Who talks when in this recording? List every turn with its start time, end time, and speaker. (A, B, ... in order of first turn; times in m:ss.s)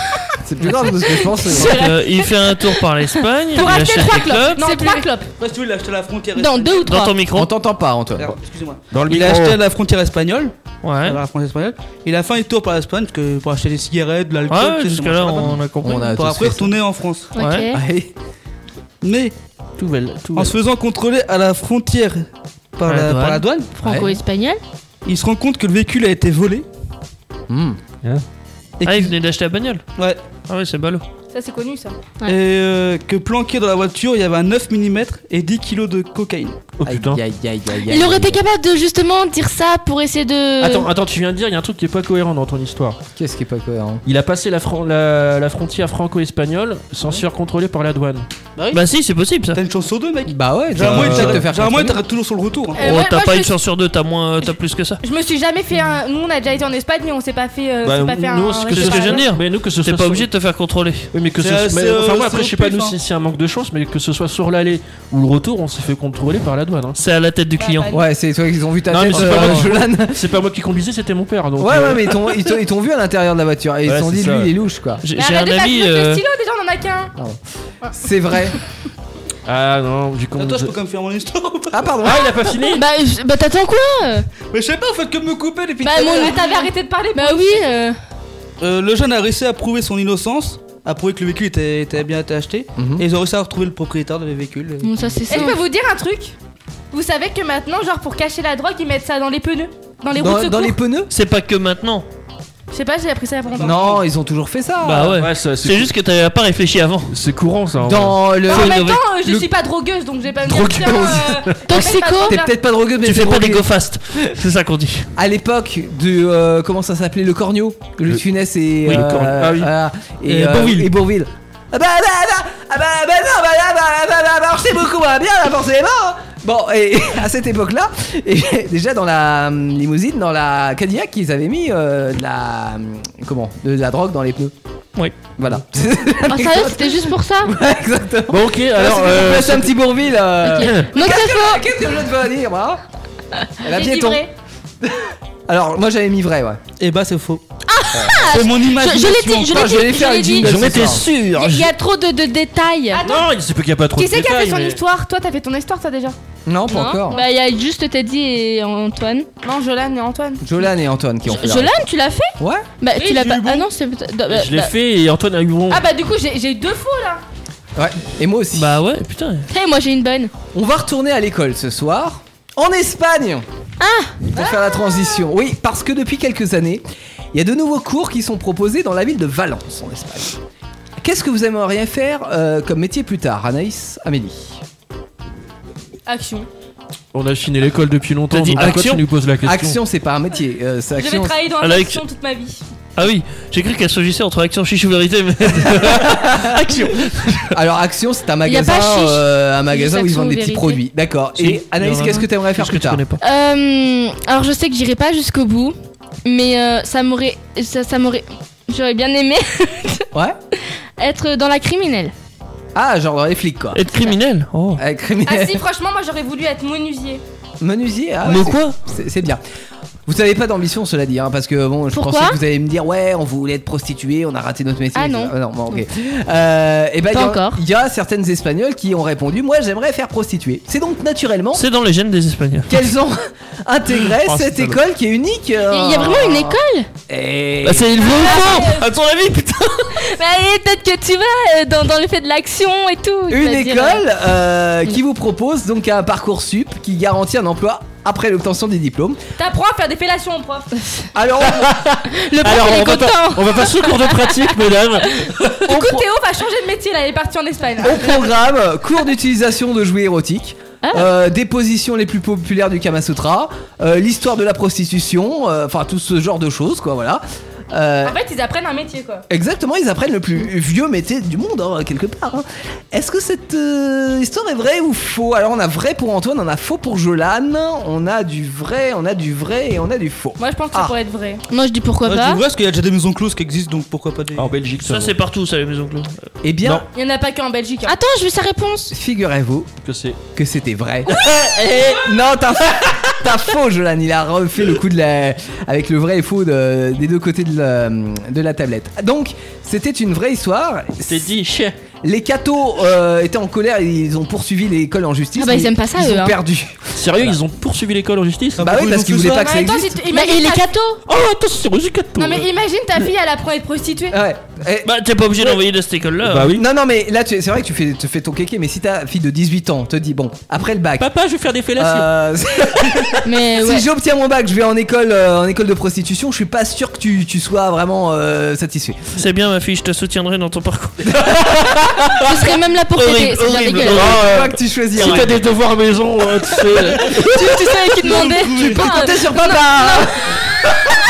0:00.4-0:01.8 A
0:01.0-0:01.7 B
0:01.4-0:02.3 C
0:01.5-0:04.7 D
0:03.6-0:05.2 B
0:03.6-0:05.2 C
0:05.4-0:06.9 E
0:06.4-0:07.1 C
0:06.8-0:07.5 D
0:07.3-0:08.4 A
0:08.2-0:17.3 E
0:08.9-0:09.6 F
0:10.8-0:11.2 D
0:14.5-0:16.1 D
0:15.8-0:16.8 A
0:17.4-0:17.8 C
0:17.4-0:17.7 D
0:17.7-0:18.1 A
0:19.0-0:19.3 E
0:19.8-0:20.6 F
0:20.3-0:22.3 E
0:22.8-0:23.7 E
0:22.9-0:23.4 D
0:23.8-0:24.6 C
0:23.8-0:24.2 A
0:25.0-0:26.7 E
0:27.5-0:27.8 A
0:28.8-0:29.1 E
0:28.8-0:29.8 D
0:30.5-0:31.0 D
0:31.3-0:32.0 B
0:32.3-0:36.6 E
0:36.8-0:37.2 F
0:36.9-0:38.4 A
0:37.9-0:40.9 C
0:40.6-0:43.0 F
0:43.2-0:44.0 A
0:44.1-0:48.3 F
0:48.7-0:49.6 D
0:49.5-0:52.8 E
0:50.3-0:52.0 A
0:50.8-0:51.5 F
0:52.7-0:53.5 B
0:52.8-0:55.0 D
0:55.0-0:59.3 B
0:57.8-1:00.3 F
0:58.7-1:01.1 D
1:01.1-1:07.0 F
1:01.4-1:03.0 E
1:07.0-1:08.0 D
1:07.6-1:08.1 B
1:07.9-1:10.3 A
1:08.9-1:12.5 F
1:09.1-1:09.6 D
1:11.6-1:15.0 A
1:13.9-1:14.5 F
1:15.0-1:16.2 D
1:15.1-1:17.1 B
1:17.9-1:18.6 A
1:19.4-1:20.7 F
1:20.4-1:21.9 E
1:21.7-1:22.4 A
1:22.0-1:22.8 F
1:22.7-1:24.3 C
1:24.5-1:26.4 E
1:25.8-1:28.0 C
1:26.0-1:27.6 B
1:28.6-1:35.1 E
1:32.8-1:33.1 A
1:34.8-1:35.6 C
1:35.3-1:36.4 B
1:36.9-1:40.8 B
1:40.2-1:41.1 A
1:41.1-1:42.1 D
1:42.7-1:43.8 B
1:43.6-1:44.0 E
1:43.6-1:45.2 A
1:44.8-1:47.1 D
1:45.2-1:45.9 F
1:47.1-1:48.2 F
1:47.8-1:49.5 A
1:48.4-1:52.5 B
1:48.5-1:49.1 D
1:50.4-1:53.7 A
1:50.7-1:51.2 F
1:51.7-1:52.4 C
1:53.0-1:55.1 D
1:55.2-2:14.5 A
1:58.8-1:59.7 F
2:00.3-2:00.9 F
2:15.4-2:22.8 A
2:16.2-2:17.5 C
2:18.3-2:19.8 F
2:20.4-2:21.6 C
2:23.6-2:24.3 A
2:23.7-2:24.3 B
2:24.8-2:26.6 A
2:26.8-2:27.4 E
2:27.7-2:30.5 C
2:27.9-2:28.3 A
2:28.3-2:29.7 E
2:29.5-2:31.1 A
2:30.4-2:31.7 F
2:31.3-2:33.0 C
2:32.9-2:33.3 B
2:33.0-2:34.8 F
2:33.9-2:36.2 B
2:36.5-2:37.2 A
2:36.7-2:39.3 C
2:39.4-2:40.4 B
2:40.4-2:41.8 A
2:41.3-2:42.3 C
2:42.4-2:42.7 A
2:42.8-2:44.7 C
2:42.9-2:43.7 E
2:44.3-2:45.8 F
2:45.7-2:47.2 B
2:47.8-2:48.7 A
2:48.5-2:49.5 D
2:49.5-2:50.3 C
2:50.5-2:53.4 A
2:53.8-2:54.3 C
2:54.3-3:00.4 A
2:54.4-2:55.0 B
3:01.0-3:04.6 A
3:06.1-3:06.5 B
3:07.1-3:09.8 F
3:08.3-3:09.0 D
3:08.6-3:11.4 A
3:11.0-3:12.6 B
3:11.6-3:12.0 D
3:13.0-3:17.6 D
3:15.6-3:16.8 A
3:17.5-3:23.0 A
3:18.4-3:20.8 C
3:21.4-3:23.2 D
3:23.2-3:30.1 C
3:31.0-3:32.1 C
3:32.8-3:33.8 A
3:33.7-3:34.8 D
3:34.8-3:35.6 A
3:35.2-3:37.2 B
3:37.6-3:39.4 A
3:38.2-3:38.8 D
3:40.1-3:51.6 A
3:41.9-3:42.4 C
3:45.0-3:45.3 C
3:47.1-3:47.6 C
3:51.5-3:52.8 D
3:52.7-3:58.1 A
3:54.4-3:54.7 F
3:55.7-3:56.9 C
3:57.6-3:59.9 D
3:58.0-3:58.8 B
3:58.2-3:58.7 C
4:00.0-4:04.0 C
4:03.3-4:09.2 A
4:09.4-4:10.7 B
4:11.1-4:11.7 A
4:11.5-4:15.8 F
4:12.1-4:13.7 C
4:15.7-4:18.2 B
4:15.7-4:16.0 A
4:17.8-4:28.2 A
4:28.0-4:29.2 B
4:29.3-4:40.9 A
4:40.4-4:41.4 B
4:41.5-4:42.4 C
4:42.0-4:44.5 E
4:44.4-4:45.1 F
4:44.8-4:46.1 D
4:46.4-4:46.8 A
4:46.9-4:47.9 B
4:47.8-4:49.0 C
4:48.9-4:49.7 A
4:49.8-4:50.2 F
4:50.4-4:51.2 A
4:51.1-4:52.1 F
4:52.0-5:01.3 A
5:01.1-5:01.8 F
5:02.0-5:07.3 A
5:05.4-5:06.4 C
5:07.0-5:08.7 F
5:08.6-5:09.5 E
5:08.6-5:10.0 A
5:09.4-5:10.9 B
5:10.1-5:10.9 C
5:11.1-5:12.5 F
5:12.2-5:14.2 B
5:14.1-5:14.9 A
5:14.8-5:16.6 D
5:16.2-5:16.6 F
5:16.5-5:21.1 A
5:21.0-5:22.1 F
5:21.8-5:29.0 A
5:23.2-5:23.8 C
5:29.2-5:31.0 D
5:31.1-5:31.6 A
5:31.4-5:31.7 F
5:32.2-5:34.1 C
5:32.9-5:35.4 D
5:34.0-5:35.3 A
5:35.0-5:37.6 F
5:37.3-5:40.1 C
5:38.1-5:40.2 A